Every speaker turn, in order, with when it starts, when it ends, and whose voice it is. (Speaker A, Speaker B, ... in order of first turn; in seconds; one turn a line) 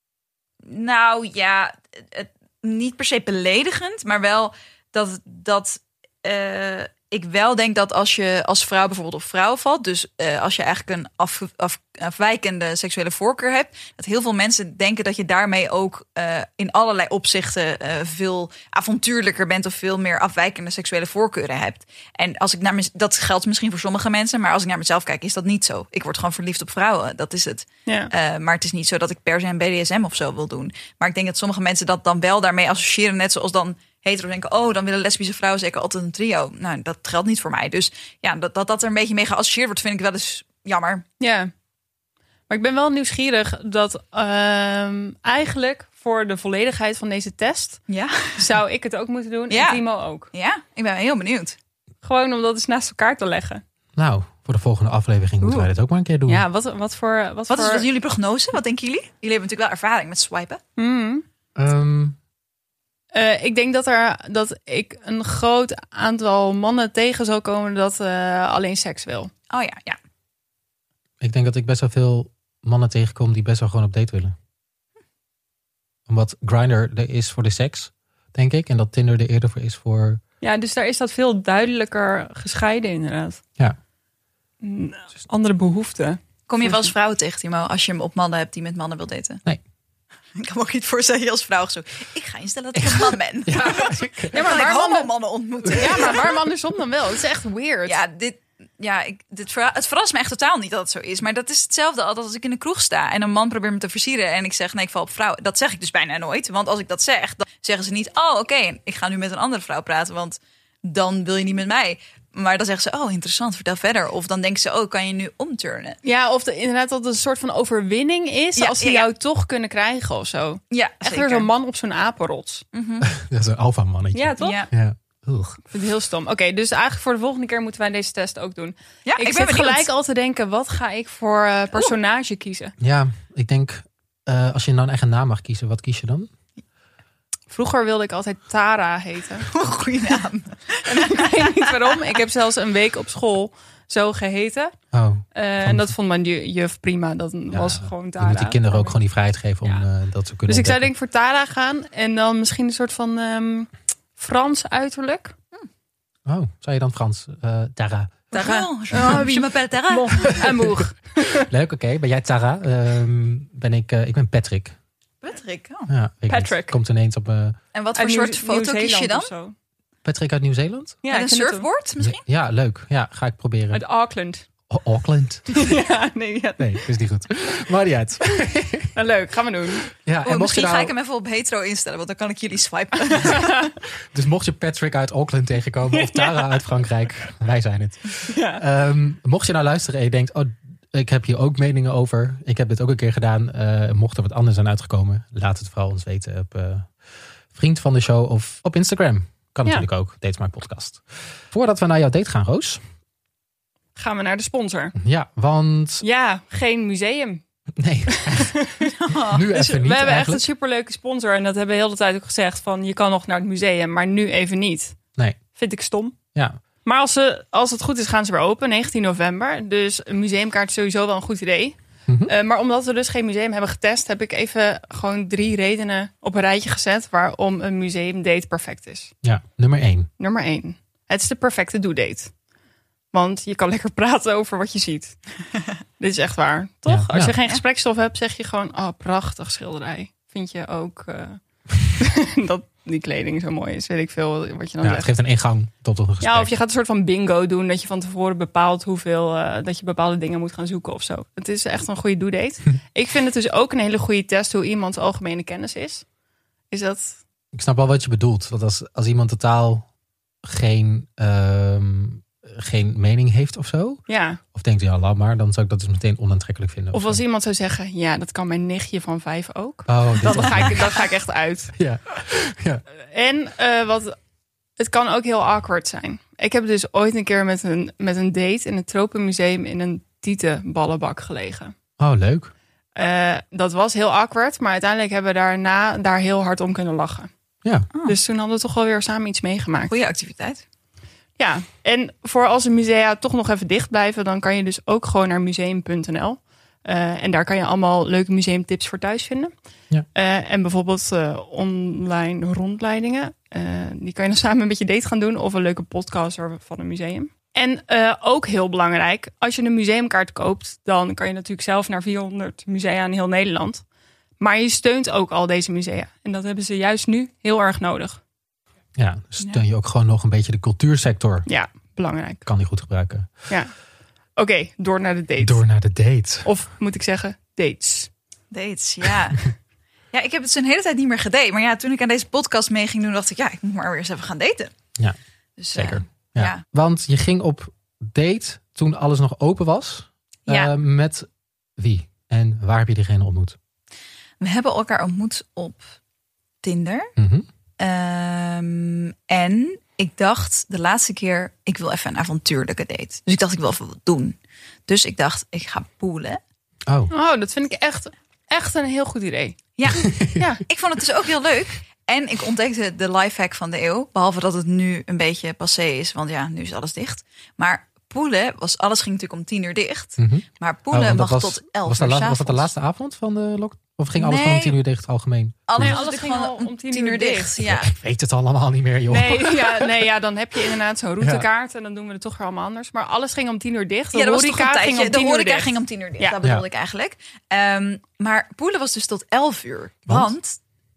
Speaker A: 0.6-41.0
Speaker B: 27.9-28.1
Speaker B: 41.2-41.5
Speaker B: 42.5-47.8
Speaker A: 47.9-48.4
Speaker B: 48.4-50.3
Speaker A: 49.5-51.6
Speaker B: 52.0-53.6
Speaker C: 54.0-56.5
Speaker B: 55.4-55.7
Speaker B: 56.3-57.9
Speaker A: 57.5-60.6
Speaker B: 60.8-61.2
Speaker C: 61.5-62.2
Speaker B: 63.1-69.3
Speaker A: 69.5-70.0
Speaker C: 71.2-74.3
Speaker C: 76.1-80.2
Speaker B: 80.4-83.4
Speaker B: 84.6-86.2
Speaker A: 86.5-89.4
Speaker A: 90.3-96.4
Speaker C: 92.7-94.5
Speaker B: 94.3-95.1
Speaker B: 95.7-98.0
Speaker A: 97.8-116.0
Speaker B: 116.0-122.6
Speaker A: 118.6-119.1
Speaker A: 120.7-121.5
Speaker A: 122.7-123.1
Speaker C: 123.0-125.6
Speaker B: 124.1-124.6
Speaker A: 124.4-124.7
Speaker B: 125.7-132.7
Speaker A: 129.0-129.8
Speaker C: 132.8-136.3
Speaker B: 137.5-139.5
Speaker A: 139.5-141.8
Speaker B: 140.8-144.7
Speaker C: 144.9-145.9
Speaker B: 145.3-149.0
Speaker C: 147.5-150.9
Speaker B: 149.6-149.9
Speaker B: 150.4-155.3
Speaker C: 156.2-158.3
Speaker A: 158.3-160.5
Speaker B: 158.3-161.5
Speaker C: 160.3-164.7
Speaker A: 165.2-165.9
Speaker C: 165.9-167.6
Speaker B: 166.3-166.8
Speaker A: 167.7-169.3
Speaker B: 167.9-169.5
Speaker C: 170.0-171.0
Speaker B: 171.0-171.7
Speaker A: 171.1-172.2
Speaker C: 172.0-173.8
Speaker B: 173.7-174.5
Speaker C: 174.7-175.7
Speaker B: 175.5-176.9
Speaker C: 176.6-178.9
Speaker B: 178.3-179.9
Speaker C: 179.9-180.9
Speaker A: 180.2-183.5
Speaker B: 183.2-183.7
Speaker C: 184.1-196.9
Speaker B: 185.9-186.6
Speaker B: 188.3-188.6
Speaker C: 197.5-202.8
Speaker B: 203.9-204.9
Speaker C: 204.9-206.0
Speaker B: 206.0-207.4
Speaker C: 207.8-210.5
Speaker B: 208.1-208.9
Speaker A: 208.9-209.4
Speaker B: 209.5-215.0
Speaker B: 215.6-216.2
Speaker B: 216.8-229.1
Speaker C: 222.1-222.3
Speaker C: 229.2-230.1
Speaker B: 230.2-232.3
Speaker B: 233.1-235.2
Speaker B: 236.0-245.1
Speaker C: 236.9-237.4
Speaker C: 244.8-246.5
Speaker B: 246.2-256.0
Speaker B: 256.7-257.2
Speaker C: 257.5-259.9
Speaker C: 260.4-264.0
Speaker B: 264.1-264.4
Speaker C: 264.5-267.2
Speaker B: 266.9-271.7
Speaker C: 269.9-270.8
Speaker C: 271.8-272.8
Speaker B: 273.0-274.1
Speaker B: 274.8-281.7
Speaker C: 282.0-282.5
Speaker B: 282.9-287.3
Speaker B: 288.0-289.9
Speaker A: 289.9-290.6
Speaker B: 291.4-299.5
Speaker B: 300.1-313.8
Speaker B: 314.4-318.2
Speaker C: 318.9-321.5
Speaker B: 321.4-322.5
Speaker C: 322.4-323.3
Speaker B: 324.4-325.6
Speaker C: 325.4-326.5
Speaker B: 326.4-328.1
Speaker A: 328.5-329.5
Speaker A: 330.1-334.7
Speaker A: 335.6-336.6
Speaker C: 335.7-343.6
Speaker A: 340.5-340.7
Speaker A: 344.4-345.8
Speaker A: 346.6-347.1
Speaker C: 347.2-347.4
Speaker A: 347.8-354.4
Speaker A: 354.9-356.4
Speaker C: 356.9-357.1
Speaker B: 357.1-360.6
Speaker A: 359.8-360.1
Speaker C: 359.9-360.6
Speaker A: 360.7-372.7
Speaker C: 370.2-376.0
Speaker A: 374.1-374.8
Speaker A: 375.7-377.9
Speaker B: 375.8-377.5
Speaker C: 377.6-380.0
Speaker B: 379.1-386.4
Speaker C: 381.2-381.4
Speaker A: 384.1-390.6